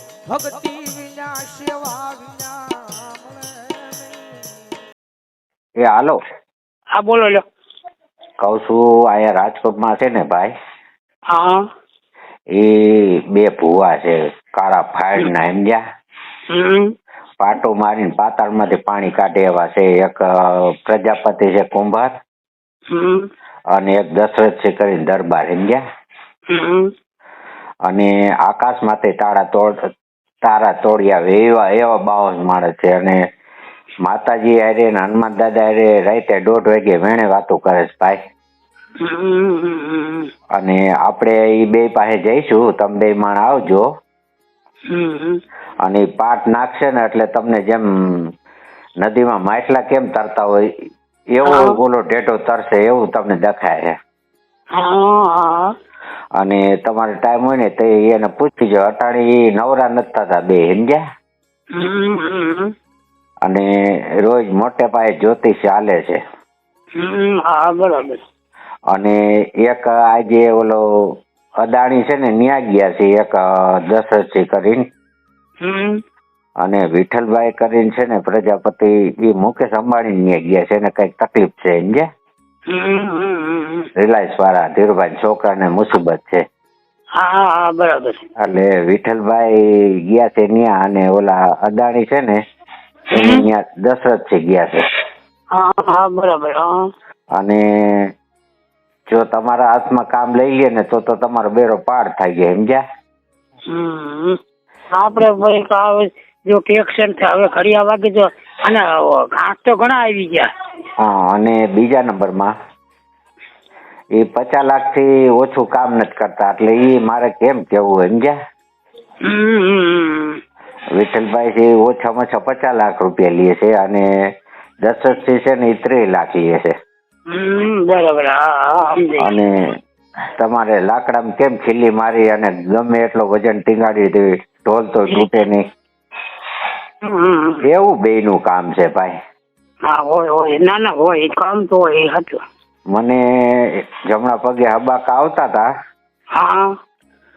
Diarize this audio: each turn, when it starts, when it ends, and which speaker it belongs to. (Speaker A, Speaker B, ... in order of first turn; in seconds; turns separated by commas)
Speaker A: 0.3-4.4, Speaker B: 5.8-6.2, Speaker C: 7.0-7.4, Speaker B: 8.4-10.5, Speaker C: 11.3-11.6, Speaker B: 12.5-15.8, Speaker C: 16.5-16.9, Speaker B: 17.4-22.1, Speaker C: 22.9-23.2, Speaker B: 23.7-25.8, Speaker C: 26.5-26.9, Speaker B: 27.9-29.8, Speaker B: 30.4-33.2, Speaker B: 34.0-38.2, Speaker C: 39.0-40.3, Speaker B: 40.5-43.9, Speaker C: 44.9-45.4, Speaker B: 45.8-48.3, Speaker B: 49.0-50.7, Speaker B: 51.3-54.0, Speaker C: 51.4-51.8, Speaker C: 54.7-55.7, Speaker B: 56.4-61.0, Speaker C: 61.7-62.7, Speaker B: 63.4-66.2, Speaker C: 67.0-68.2, Speaker B: 68.9-70.8, Speaker B: 71.6-74.9, Speaker C: 75.6-76.0, Speaker B: 76.6-82.1, Speaker C: 82.7-83.9, Speaker B: 84.0-86.4, Speaker C: 87.2-88.2, Speaker B: 88.4-92.4, Speaker B: 93.1-94.8, Speaker C: 93.1-93.5, Speaker C: 95.5-96.8, Speaker B: 97.3-98.1, Speaker B: 99.1-102.8, Speaker C: 103.7-104.4, Speaker C: 104.9-110.5, Speaker B: 111.0-112.5, Speaker B: 114.1-118.3, Speaker C: 119.2-120.4, Speaker B: 121.0-124.1, Speaker B: 124.8-126.7, Speaker C: 127.3-129.3, Speaker B: 129.2-129.7, Speaker B: 130.4-135.7, Speaker C: 137.0-137.6, Speaker B: 137.6-139.2, Speaker C: 139.9-142.4, Speaker B: 142.9-145.7, Speaker C: 146.3-146.7